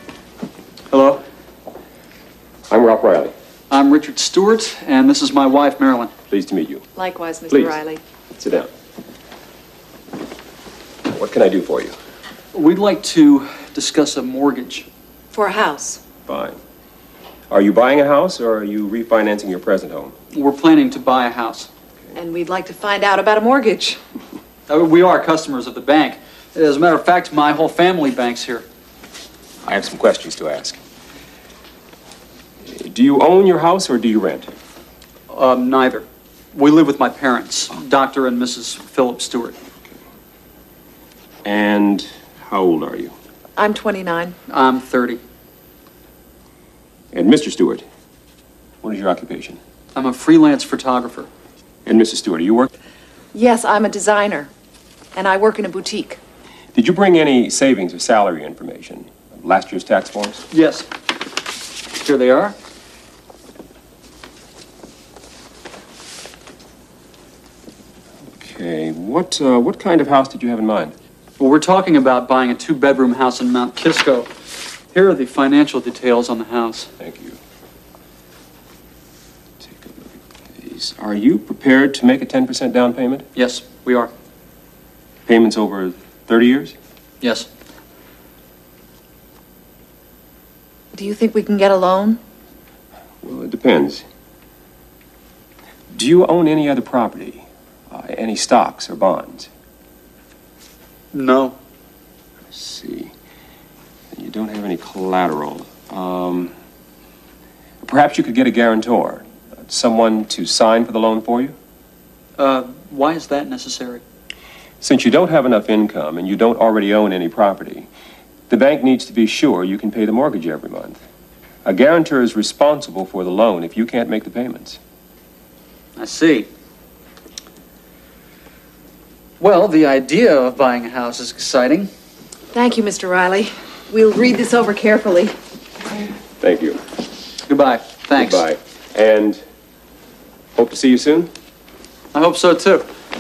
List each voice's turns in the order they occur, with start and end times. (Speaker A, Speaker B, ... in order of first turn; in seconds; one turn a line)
Speaker A: 0.9-1.2
Speaker B: 2.7-3.3
Speaker A: 3.7-6.1
Speaker B: 6.3-6.8
Speaker C: 7.0-8.0
Speaker B: 7.5-7.8
Speaker B: 8.3-8.7
Speaker B: 11.0-11.9
Speaker A: 12.5-14.8
Speaker C: 15.3-16.0
Speaker B: 16.2-16.6
Speaker B: 17.5-20.1
Speaker A: 20.3-21.7
Speaker C: 22.1-24.0
Speaker A: 24.7-28.6
Speaker B: 29.6-30.8
Speaker B: 32.6-34.5
Speaker A: 35.3-39.5
Speaker B: 41.4-43.1
Speaker C: 43.6-44.3
Speaker A: 44.5-45.2
Speaker B: 47.1-47.8
Speaker B: 48.8-49.6
Speaker A: 49.9-51.3
Speaker B: 51.9-52.7
Speaker C: 53.3-54.5
Speaker C: 55.1-56.2
Speaker B: 56.7-60.4
Speaker A: 60.5-60.9
Speaker A: 61.9-62.5
Speaker B: 68.3-70.9
Speaker A: 71.4-74.3
Speaker A: 74.9-76.9
Speaker B: 77.0-77.4
Speaker B: 79.6-83.3
Speaker A: 83.3-84.1
Speaker B: 85.3-86.7
Speaker A: 87.2-87.5
Speaker C: 90.9-92.2
Speaker B: 93.2-94.0
Speaker B: 95.9-99.5
Speaker A: 101.1-101.5
Speaker B: 102.5-103.1
Speaker B: 104.1-106.5
Speaker B: 107.8-111.5
Speaker A: 112.4-114.0
Speaker B: 114.8-117.9
Speaker B: 118.5-121.0
Speaker B: 121.6-124.8
Speaker A: 126.0-126.5
Speaker A: 129.4-131.9
Speaker C: 132.5-135.3
Speaker B: 136.4-136.8
Speaker A: 137.4-138.5
Speaker B: 138.1-139.4
Speaker B: 140.5-141.3
Speaker A: 142.1-142.9